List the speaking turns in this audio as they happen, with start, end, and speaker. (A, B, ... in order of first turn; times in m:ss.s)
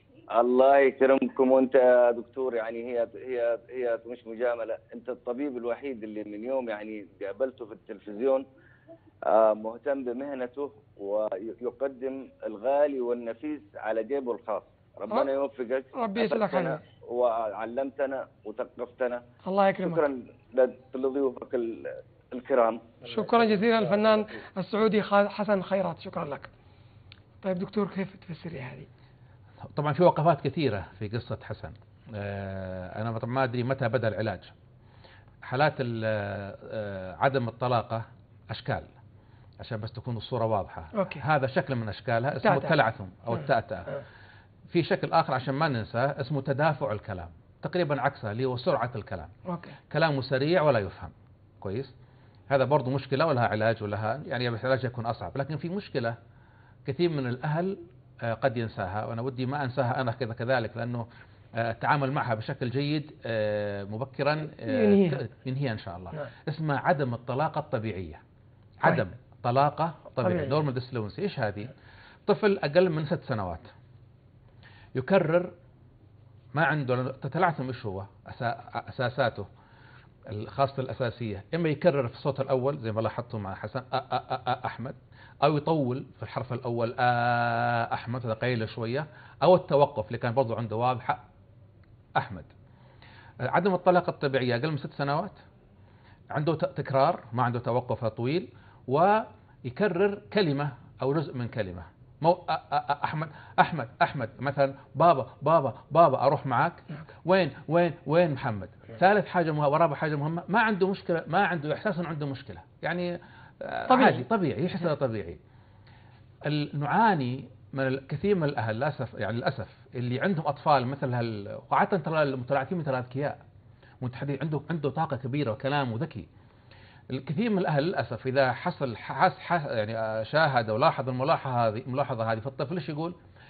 0:00.4-0:08.4 A
0:09.3-0:19.2 A
0:16.0-0:16.8 B
0:19.5-0:20.0 B
0:19.8-0:22.9 A
0:23.0-0:26.5 B
0:27.4-0:28.9 B
0:29.7-0:34.5 C
0:35.4-0:38.9 C
0:39.6-0:43.9 C
0:41.0-0:41.2 B
0:42.4-0:42.8 B
0:44.7-0:49.3 C
0:49.5-0:49.8 B
0:49.9-0:51.9 C
0:52.5-0:56.2 C
0:56.8-1:08.2 C
1:04.7-1:05.2 B
1:08.8-1:11.7 C
1:10.2-1:10.6 B
1:12.3-1:13.7 C
1:15.0-1:15.5 C
1:16.5-1:19.5 C
1:20.3-1:31.2 C
1:32.2-1:32.5 C
1:33.4-1:35.4 C
1:36.3-1:55.4 C
1:53.9-1:54.2 B
1:56.4-2:03.4 C
2:04.0-2:06.3 C
2:07.1-2:13.2 C